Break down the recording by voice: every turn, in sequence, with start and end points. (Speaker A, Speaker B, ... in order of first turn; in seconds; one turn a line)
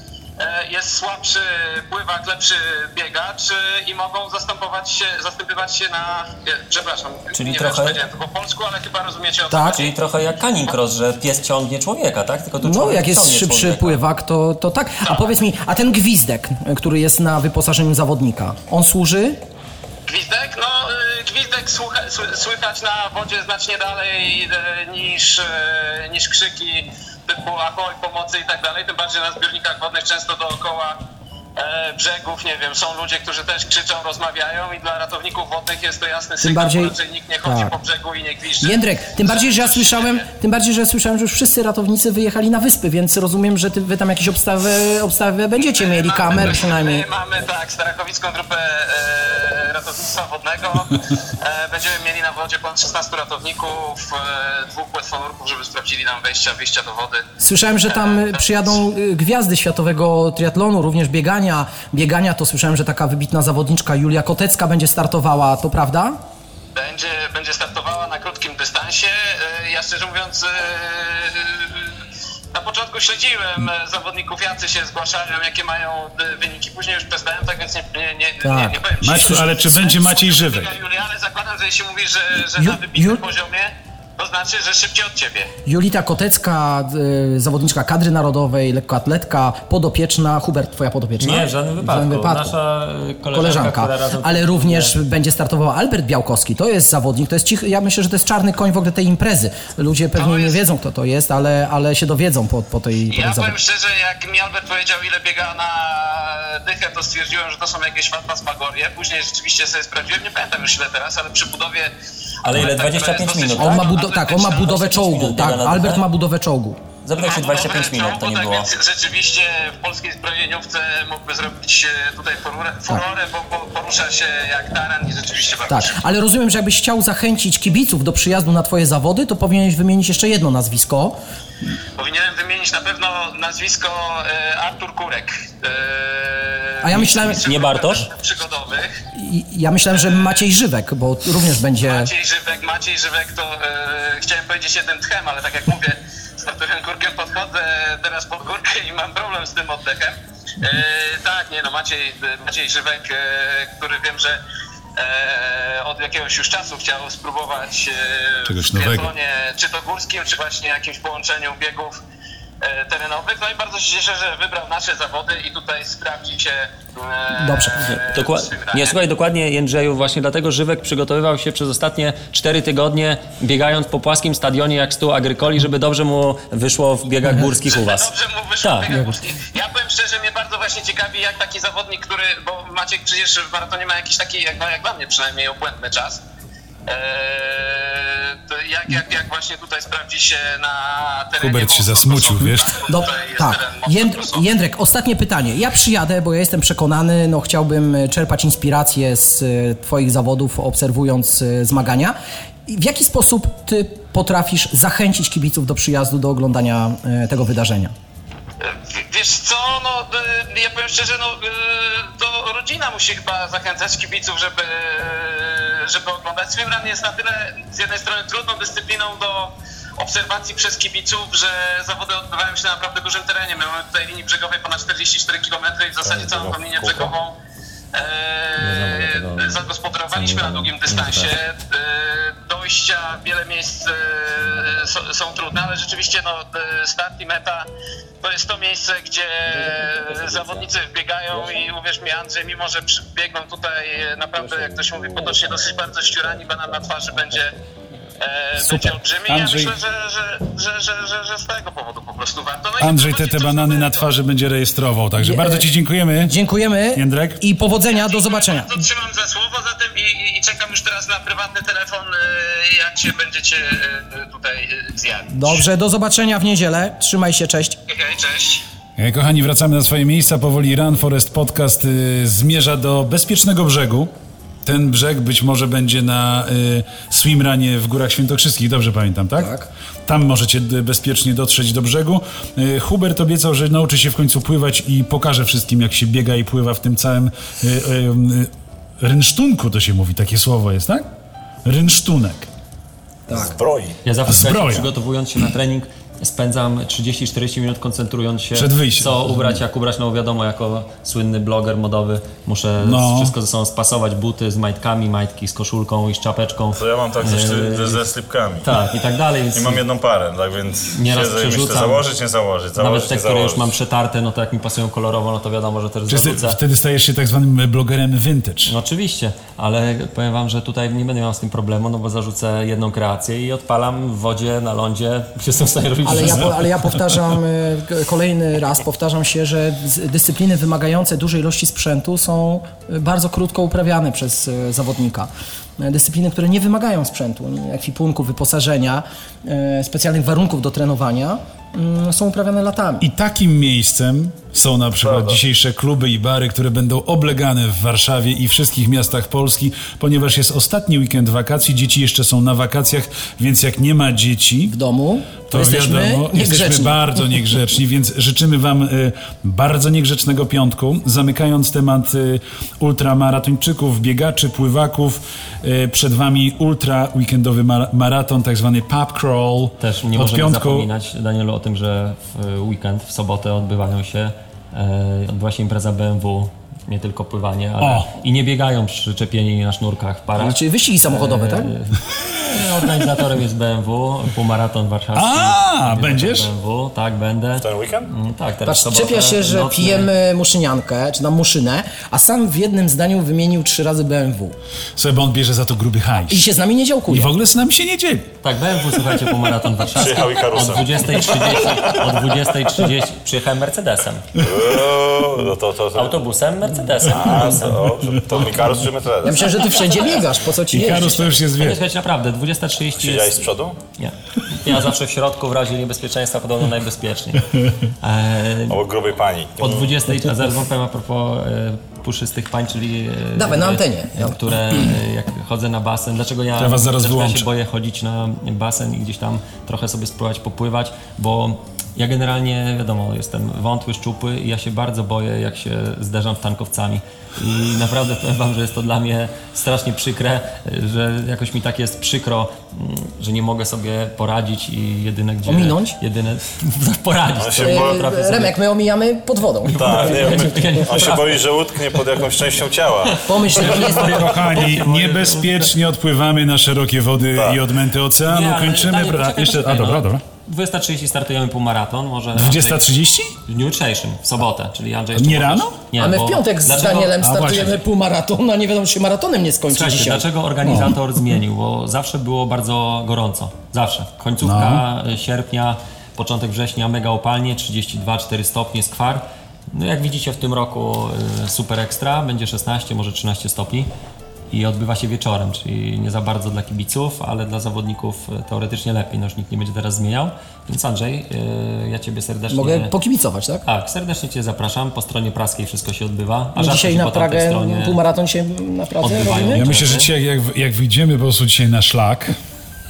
Speaker A: 0.4-9.9
Speaker B: 7.3-8.0
Speaker C: 9.5-9.8
Speaker B: 9.7-14.0
Speaker C: 12.6-19.4
Speaker A: 20.1-31.0
Speaker A: 31.6-40.3
Speaker C: 36.4-37.7
Speaker C: 38.6-47.1
Speaker A: 45.6-57.2
Speaker C: 57.4-66.2
Speaker A: 57.8-58.8
Speaker A: 66.7-71.9
Speaker A: 72.5-85.5
Speaker C: 78.4-79.8
Speaker D: 79.0-80.8
Speaker C: 82.5-83.2
Speaker C: 85.7-92.5
Speaker B: 91.2-95.0
Speaker C: 93.3-103.6
Speaker A: 100.1-100.6
Speaker A: 103.1-111.9
Speaker B: 112.4-113.9
Speaker A: 112.5-114.9
Speaker C: 113.6-116.8
Speaker B: 114.6-116.0
Speaker B: 117.0-118.7
Speaker A: 117.2-126.0
Speaker C: 125.7-131.2
Speaker A: 132.0-139.0
Speaker C: 136.8-137.5
Speaker B: 137.4-138.1
Speaker C: 139.2-142.1
Speaker A: 139.9-140.4
Speaker A: 141.8-154.4
Speaker A: 155.0-162.0
Speaker D: 158.4-159.1
Speaker A: 162.6-168.9
Speaker C: 167.3-168.0
Speaker B: 168.1-178.1
Speaker A: 177.4-186.2
Speaker B: 178.6-179.2
Speaker A: 186.9-194.5
Speaker D: 191.4-192.8
Speaker C: 192.4-202.2
Speaker C: 202.7-207.9
Speaker A: 208.6-227.3
Speaker E: 226.0-227.1
Speaker A: 227.9-237.7
Speaker B: 228.6-231.3
Speaker A: 238.2-247.5
Speaker A: 248.2-254.1
Speaker C: 248.6-249.0
Speaker D: 249.3-249.7
Speaker D: 252.8-256.4
Speaker C: 255.2-255.7
Speaker C: 256.2-258.8
Speaker D: 256.9-257.4
Speaker A: 257.8-265.6
Speaker C: 265.3-267.8
Speaker A: 267.9-268.6
Speaker D: 269.0-274.1
Speaker D: 274.6-279.5
Speaker C: 279.4-279.7
Speaker D: 280.1-291.1
Speaker D: 291.6-292.5
Speaker C: 293.3-293.6
Speaker E: 293.3-294.0
Speaker B: 294.0-308.0
Speaker D: 294.3-294.9
Speaker D: 298.5-299.6
Speaker D: 302.8-303.3
Speaker E: 306.7-308.7
Speaker B: 308.6-309.8
Speaker E: 309.5-313.7
Speaker B: 310.9-312.0
Speaker B: 312.8-316.6
Speaker D: 316.1-318.7
Speaker B: 318.6-326.7
Speaker C: 326.0-343.1
Speaker D: 343.0-354.8
Speaker E: 345.0-345.4
Speaker C: 354.7-357.1
Speaker D: 355.5-370.9
Speaker B: 369.8-390.1
Speaker D: 377.8-378.1
Speaker C: 380.4-381.7
Speaker D: 385.1-386.5
Speaker E: 387.6-388.1
Speaker C: 388.6-394.5
Speaker D: 394.9-396.4
Speaker C: 396.3-397.3
Speaker D: 397.1-398.4
Speaker B: 398.4-404.3
Speaker E: 399.9-401.9
Speaker E: 404.4-406.1
Speaker B: 405.9-407.8
Speaker E: 407.1-409.8
Speaker C: 409.2-411.4
Speaker D: 410.7-411.8
Speaker B: 411.6-413.5
Speaker E: 413.0-413.8
Speaker B: 414.0-418.8
Speaker E: 418.7-419.9
Speaker B: 419.6-448.6
Speaker C: 423.4-424.4
Speaker D: 426.6-427.5
Speaker C: 445.4-446.0
Speaker E: 447.4-448.1
Speaker C: 447.6-449.8
Speaker B: 449.6-452.1
Speaker E: 449.7-453.3
Speaker B: 453.1-455.7
Speaker C: 453.2-454.4
Speaker D: 453.8-460.2
Speaker E: 457.4-457.6
Speaker B: 458.2-462.8
Speaker D: 462.3-463.3
Speaker B: 463.4-467.7
Speaker D: 465.1-465.8
Speaker C: 466.0-470.2
Speaker D: 467.1-467.8
Speaker B: 469.7-483.9
Speaker D: 470.6-470.9
Speaker D: 474.4-474.8
Speaker B: 484.5-492.9
Speaker C: 492.5-493.6
Speaker B: 493.6-498.0
Speaker C: 496.6-499.6
Speaker B: 499.0-500.1
Speaker D: 499.5-502.4